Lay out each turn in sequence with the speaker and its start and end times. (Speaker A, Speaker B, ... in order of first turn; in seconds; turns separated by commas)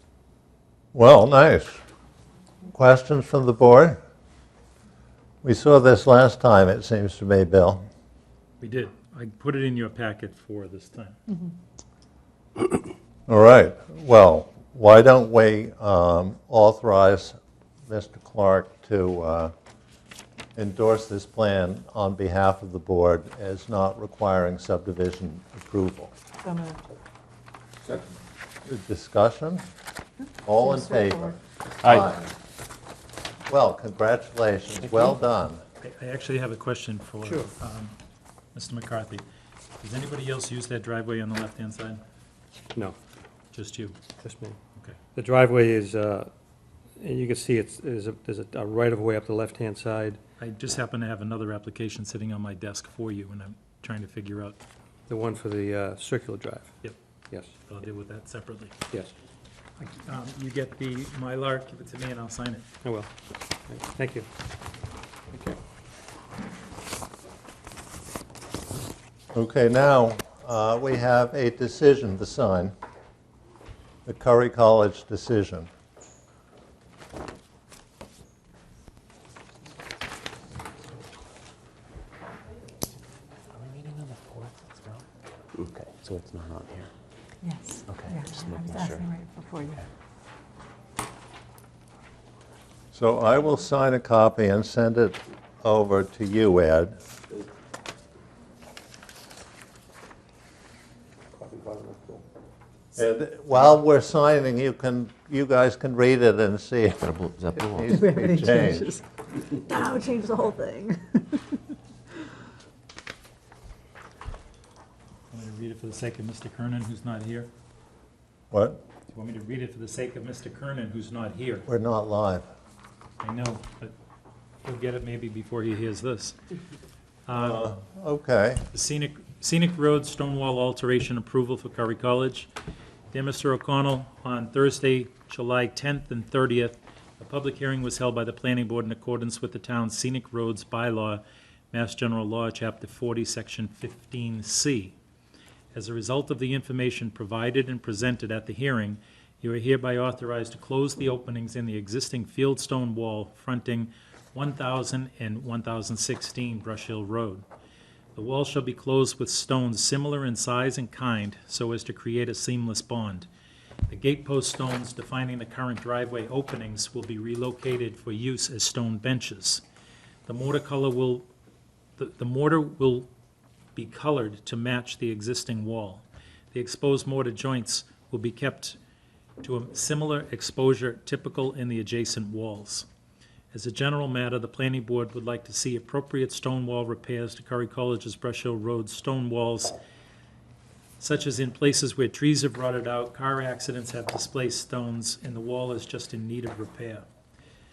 Speaker A: 0.9-1.8, Speaker A: 2.7-4.0, Speaker A: 5.4-7.9, Speaker B: 8.6-11.2, Speaker A: 13.3-19.5, Speaker A: 20.6-26.1, Speaker C: 26.4-26.8, Speaker A: 28.6-29.6, Speaker A: 30.4-32.3, Speaker C: 30.6-31.3, Speaker A: 33.5-35.6, Speaker B: 35.8-38.0, Speaker D: 37.2-37.5, Speaker B: 38.5-39.2, Speaker B: 39.8-42.0, Speaker B: 43.5-44.0, Speaker D: 44.2-44.6, Speaker D: 45.1-46.3, Speaker D: 47.0-50.2, Speaker B: 50.4-54.6, Speaker D: 55.1-56.8, Speaker D: 57.3-57.6, Speaker B: 57.7-58.8, Speaker B: 59.8-62.7, Speaker D: 62.8-63.1, Speaker D: 63.7-64.3, Speaker A: 69.3-72.7, Speaker A: 74.0-75.7, Speaker E: 83.5-85.0, Speaker E: 85.6-86.9, Speaker C: 87.4-89.8, Speaker E: 87.9-89.0, Speaker A: 92.9-97.0, Speaker D: 101.6-102.1, Speaker A: 103.0-108.9, Speaker E: 107.0-108.0, Speaker C: 107.8-111.4, Speaker B: 115.3-117.5, Speaker A: 118.5-118.8, Speaker B: 119.1-121.7, Speaker A: 121.7-122.5, Speaker B: 123.2-123.9, Speaker B: 124.6-126.4, Speaker B: 127.3-127.7, Speaker A: 127.3-128.6, Speaker B: 128.7-132.5, Speaker B: 133.1-144.9, Speaker B: 145.7-157.4, Speaker B: 158.2-163.3, Speaker B: 163.9-169.6, Speaker B: 170.2-171.3, Speaker B: 172.0-173.1, Speaker B: 173.7-178.8, Speaker B: 179.4-182.9, Speaker B: 183.5-189.8, Speaker B: 191.0-197.1